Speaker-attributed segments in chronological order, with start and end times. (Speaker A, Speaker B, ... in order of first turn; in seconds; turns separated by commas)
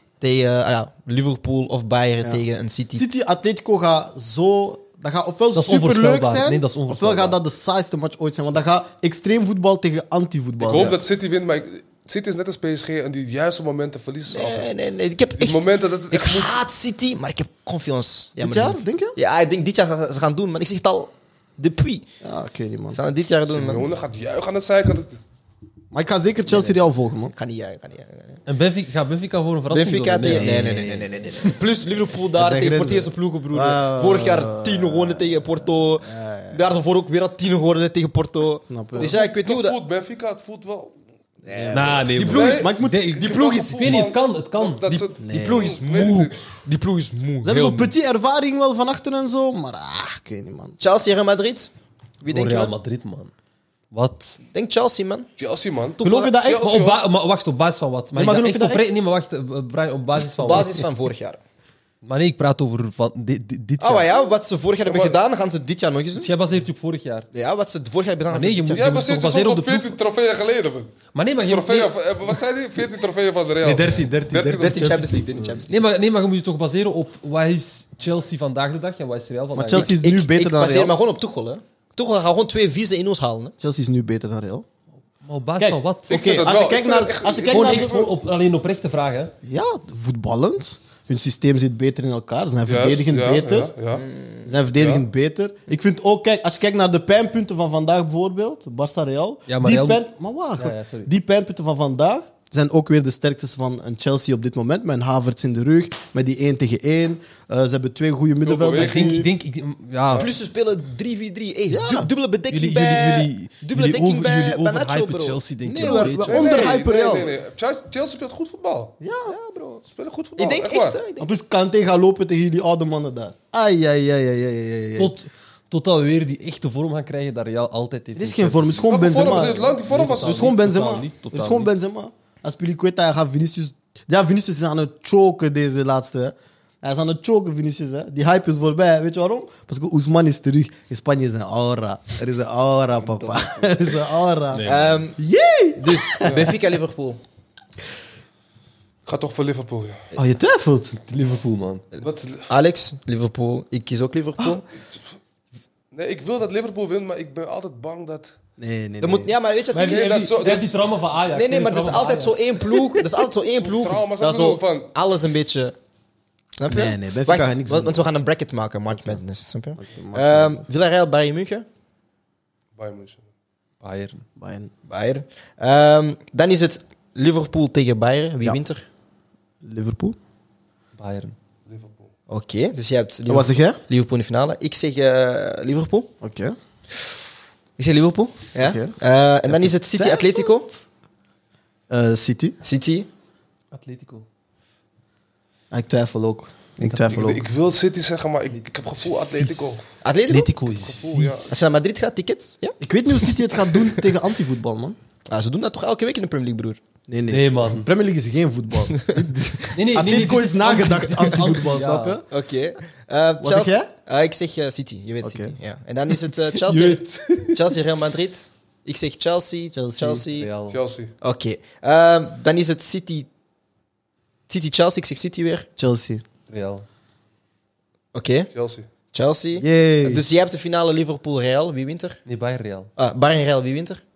Speaker A: 0.2-3.1, Speaker B: 3.0-11.0, Speaker C: 5.5-7.4, Speaker D: 10.6-14.7, Speaker A: 14.3-22.1, Speaker D: 15.4-16.6, Speaker B: 18.4-19.2, Speaker B: 22.2-23.0, Speaker A: 22.9-23.9, Speaker D: 23.4-25.2, Speaker B: 25.9-27.3, Speaker A: 26.5-26.8, Speaker A: 27.3-28.4, Speaker C: 28.5-30.5, Speaker A: 29.7-39.8, Speaker B: 30.3-31.6, Speaker B: 32.4-36.6, Speaker B: 38.7-39.1, Speaker D: 39.0-41.0, Speaker A: 41.5-42.7, Speaker B: 41.5-43.4, Speaker C: 41.7-44.9, Speaker D: 42.2-46.4, Speaker A: 43.3-44.0, Speaker A: 44.9-47.9, Speaker B: 45.2-45.8, Speaker B: 47.4-50.8, Speaker A: 50.8-51.7, Speaker A: 52.2-52.7, Speaker C: 52.3-53.3, Speaker C: 53.9-54.4, Speaker A: 54.5-55.3, Speaker D: 55.4-57.0, Speaker B: 56.0-56.7, Speaker C: 56.0-60.9, Speaker B: 58.1-58.8, Speaker A: 60.4-61.4, Speaker C: 62.0-64.1, Speaker A: 63.8-66.3, Speaker D: 64.8-65.2, Speaker C: 66.2-67.3, Speaker A: 67.3-69.0, Speaker C: 68.3-70.0, Speaker D: 68.7-75.0, Speaker C: 71.1-72.4, Speaker C: 73.6-79.9, Speaker A: 73.9-75.9, Speaker B: 75.0-75.6, Speaker B: 79.5-81.0, Speaker A: 79.7-83.5, Speaker B: 83.6-84.7, Speaker C: 85.2-86.2, Speaker B: 85.6-88.1, Speaker D: 86.1-88.1, Speaker C: 87.3-89.3, Speaker B: 89.4-93.7, Speaker D: 92.7-94.1, Speaker A: 93.9-94.5, Speaker B: 94.5-109.3, Speaker D: 94.8-95.0, Speaker C: 99.5-100.0, Speaker C: 100.6-101.1, Speaker D: 108.4-109.2, Speaker C: 108.8-110.3, Speaker A: 110.2-115.9, Speaker B: 111.7-112.1, Speaker C: 112.5-116.8, Speaker B: 115.6-117.3, Speaker D: 115.9-119.0, Speaker B: 119.0-119.4, Speaker A: 119.3-119.8, Speaker D: 119.8-121.0, Speaker A: 120.4-121.3, Speaker B: 121.2-125.1, Speaker C: 125.0-131.7, Speaker B: 128.2-144.7, Speaker D: 128.9-130.5, Speaker A: 143.0-143.8, Speaker C: 144.5-145.0, Speaker A: 144.6-145.2, Speaker B: 145.2-146.6, Speaker A: 145.8-147.2, Speaker D: 146.2-146.5, Speaker D: 149.1-150.0, Speaker B: 150.1-150.9, Speaker C: 150.9-151.8, Speaker A: 151.9-154.7, Speaker D: 152.0-152.5, Speaker D: 154.8-155.2, Speaker D: 155.9-158.3, Speaker B: 158.6-159.3, Speaker A: 159.0-160.3, Speaker C: 159.7-162.6, Speaker D: 159.8-160.8, Speaker A: 161.3-165.8, Speaker D: 163.6-164.9, Speaker A: 166.6-171.7, Speaker B: 166.7-168.1, Speaker B: 168.9-169.2, Speaker B: 169.8-170.7, Speaker D: 172.8-173.2, Speaker C: 173.8-174.2, Speaker B: 174.4-174.7, Speaker A: 174.9-178.9, Speaker B: 179.6-180.2, Speaker C: 181.0-181.3, Speaker D: 181.7-182.1, Speaker A: 182.3-186.1, Speaker B: 183.3-183.8, Speaker B: 186.2-186.6, Speaker A: 187.8-190.7, Speaker B: 188.6-188.9, Speaker B: 189.5-190.8, Speaker B: 191.9-192.6, Speaker A: 192.6-193.1, Speaker C: 193.7-194.3, Speaker B: 195.7-197.5, Speaker D: 197.1-199.8, Speaker C: 199.4-199.8, Speaker A: 200.0-200.5, Speaker C: 200.3-201.5, Speaker D: 200.7-201.5, Speaker A: 201.5-202.8, Speaker B: 202.8-205.0, Speaker A: 205.3-206.8, Speaker B: 207.1-212.2, Speaker C: 207.3-207.9, Speaker C: 209.7-212.2, Speaker A: 212.3-220.5, Speaker B: 213.4-213.9, Speaker B: 215.2-215.6, Speaker B: 216.4-217.6, Speaker B: 219.7-220.2, Speaker C: 220.3-220.8, Speaker D: 220.7-221.1, Speaker A: 221.2-223.3, Speaker A: 224.5-225.7, Speaker B: 225.8-226.2, Speaker C: 226.5-226.8, Speaker A: 228.1-228.5, Speaker D: 228.5-228.9, Speaker A: 229.1-232.2, Speaker B: 229.6-230.2, Speaker C: 232.3-232.9, Speaker A: 233.0-234.0